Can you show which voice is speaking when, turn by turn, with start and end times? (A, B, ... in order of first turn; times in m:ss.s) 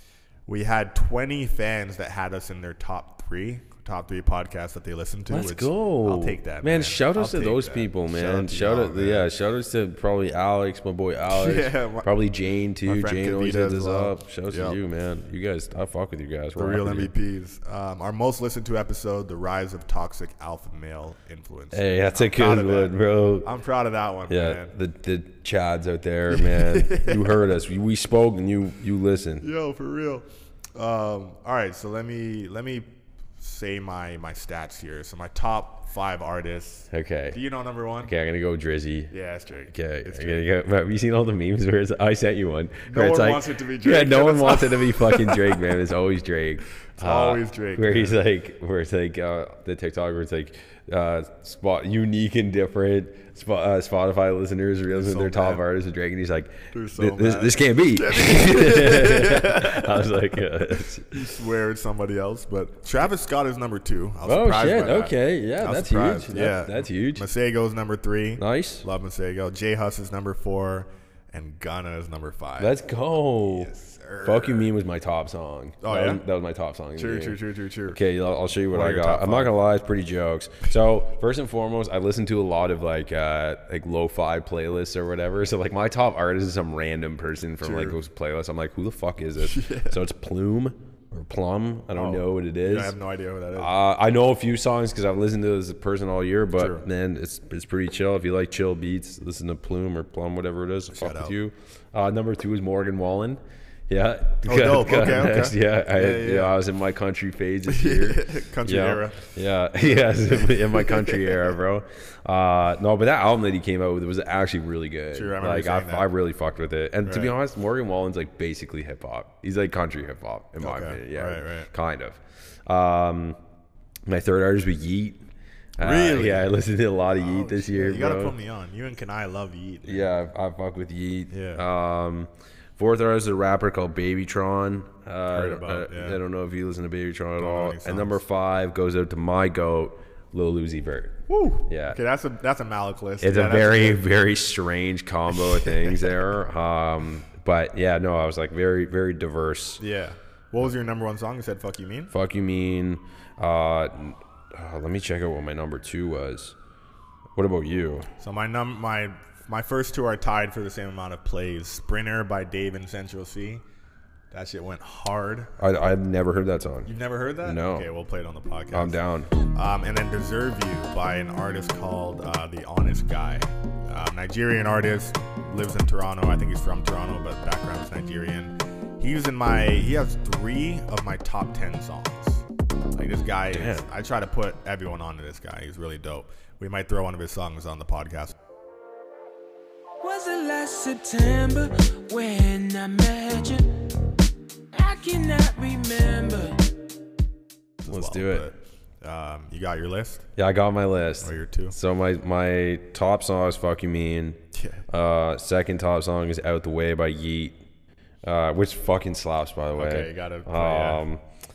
0:00.5-0:09.3 A
0:05.3-0:17.1 B
0:11.3-0:12.1 A
0:12.8-0:14.8 A
0:16.6-0:24.7 A
0:21.7-0:23.5 B
0:24.3-0:29.4 B
0:26.3-0:27.4 A
0:29.4-0:30.2 A
0:30.8-0:38.1 A
0:36.9-0:37.4 B
0:38.0-0:39.1 B
0:39.1-0:40.4 A
0:39.7-1:01.3 B
0:42.8-0:45.7 A
0:46.9-0:48.2 A
0:54.9-0:55.6 A
0:56.7-1:00.4 A
1:01.1-1:12.8 A
1:04.2-1:07.2 B
1:08.4-1:08.8 B
1:12.6-1:13.7 B
1:13.4-1:14.7 A
1:14.2-1:32.9 B
1:15.8-1:16.2 A
1:17.0-1:18.0 A
1:18.7-1:19.5 A
1:27.6-1:28.0 A
1:29.4-1:30.0 A
1:31.9-1:33.7 A
1:33.5-2:03.4 B
1:36.6-1:36.8 A
1:40.9-1:41.3 A
1:44.4-1:46.6 A
1:47.7-1:49.3 A
1:49.8-1:51.5 A
1:55.1-1:56.1 A
1:57.0-1:57.3 A
2:00.6-2:01.7 A
2:04.0-2:05.2 B
2:05.8-2:08.3 B
2:05.8-2:06.6 A
2:07.1-2:10.1 A
2:09.8-2:22.0 B
2:11.3-2:11.6 A
2:15.3-2:16.2 A
2:17.4-2:18.2 A
2:21.3-2:24.0 A
2:23.2-2:29.8 B
2:25.3-2:26.1 A
2:29.8-2:32.1 A
2:32.1-2:36.6 B
2:37.3-2:38.1 B
2:38.2-2:43.6 A
2:44.3-2:45.6 A
2:45.6-2:46.9 B
2:46.8-2:49.0 A
2:47.4-2:47.9 B
2:48.7-2:49.3 B
2:49.5-3:08.3 A
3:03.5-3:03.8 B
3:10.0-3:13.9 C
3:14.7-3:16.7 C
3:17.8-3:20.2 A
3:17.8-3:18.5 B
3:20.4-3:27.6 B
3:21.2-3:21.7 A
3:24.5-3:24.8 A
3:28.2-3:31.2 B
3:29.7-3:31.0 A